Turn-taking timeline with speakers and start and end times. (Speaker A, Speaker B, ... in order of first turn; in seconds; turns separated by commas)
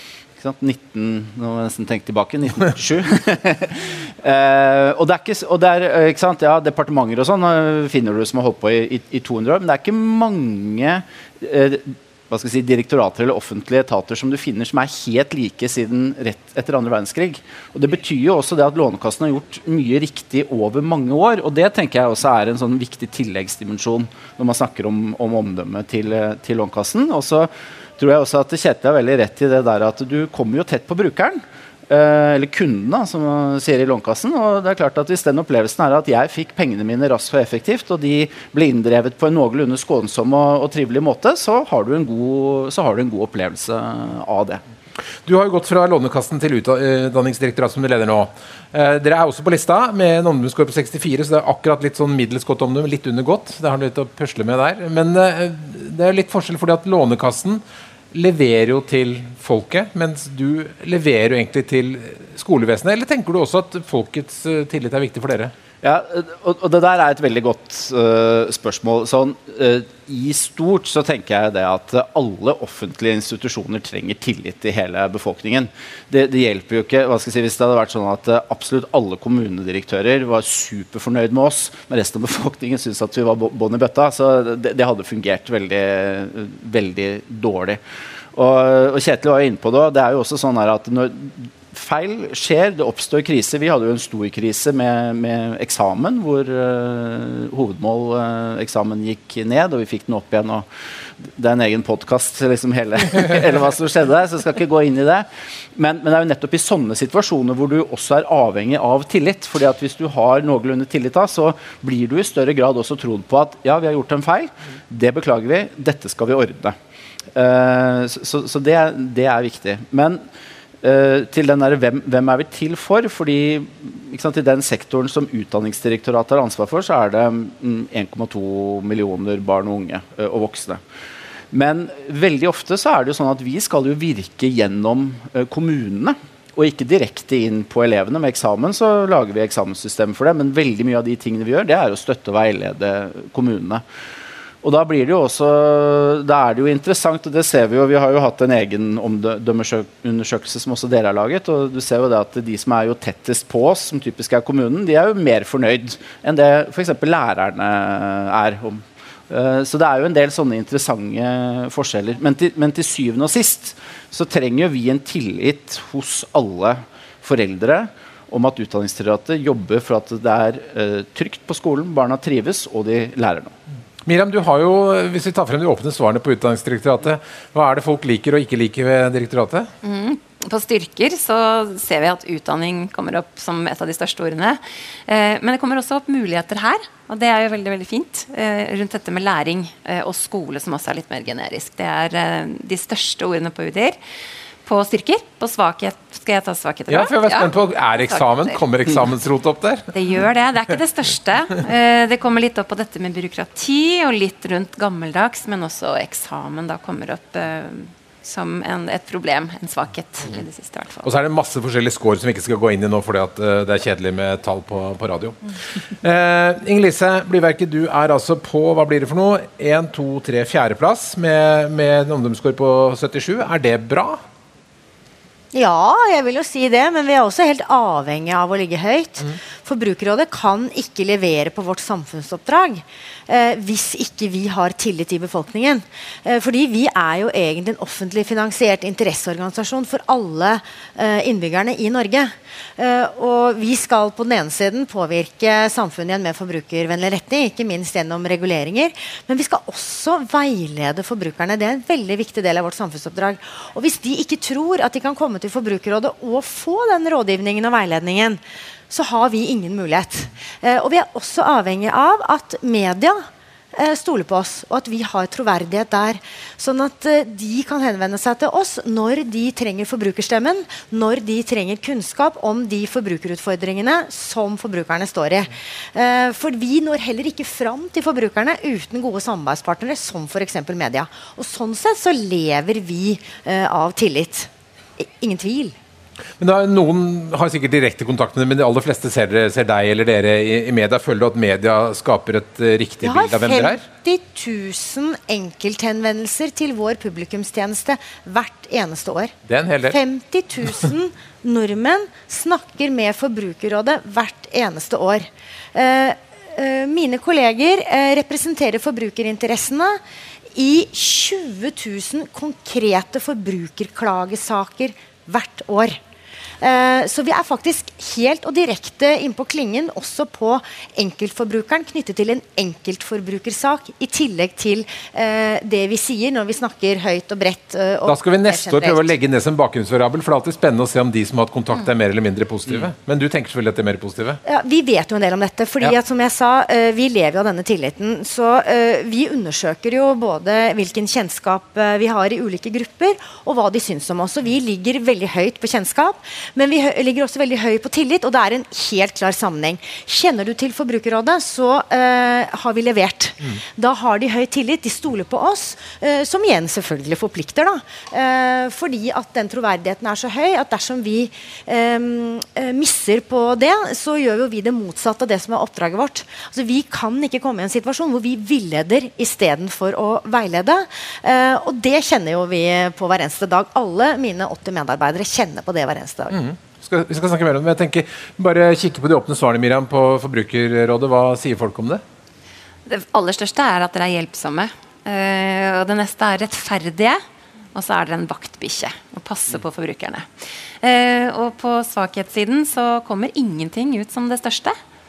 Speaker A: 0.4-44.6, Speaker B: 45.2-57.6, Speaker B: 58.1-65.5, Speaker A: 65.8-87.8, Speaker A: 88.3-100.7, Speaker A: 101.2-116.8, Speaker A: 117.3-120.2, Speaker A: 120.8-130.8, Speaker A: 131.5-143.8, Speaker A: 144.6-173.5, Speaker B: 174.0-179.7, Speaker C: 179.8-194.0, Speaker C: 194.6-198.6, Speaker B: 196.9-199.9, Speaker C: 199.9-211.1, Speaker B: 211.0-224.2, Speaker D: 225.5-263.2, Speaker D: 263.7-285.7, Speaker B: 286.4-293.8, Speaker D: 293.0-299.3, Speaker B: 299.5-300.0, Speaker D: 299.9-310.0, Speaker D: 310.5-316.0, Speaker D: 316.6-329.1, Speaker B: 328.1-334.4, Speaker D: 334.4-376.3, Speaker B: 376.3-382.0, Speaker C: 382.9-387.2, Speaker C: 387.7-394.8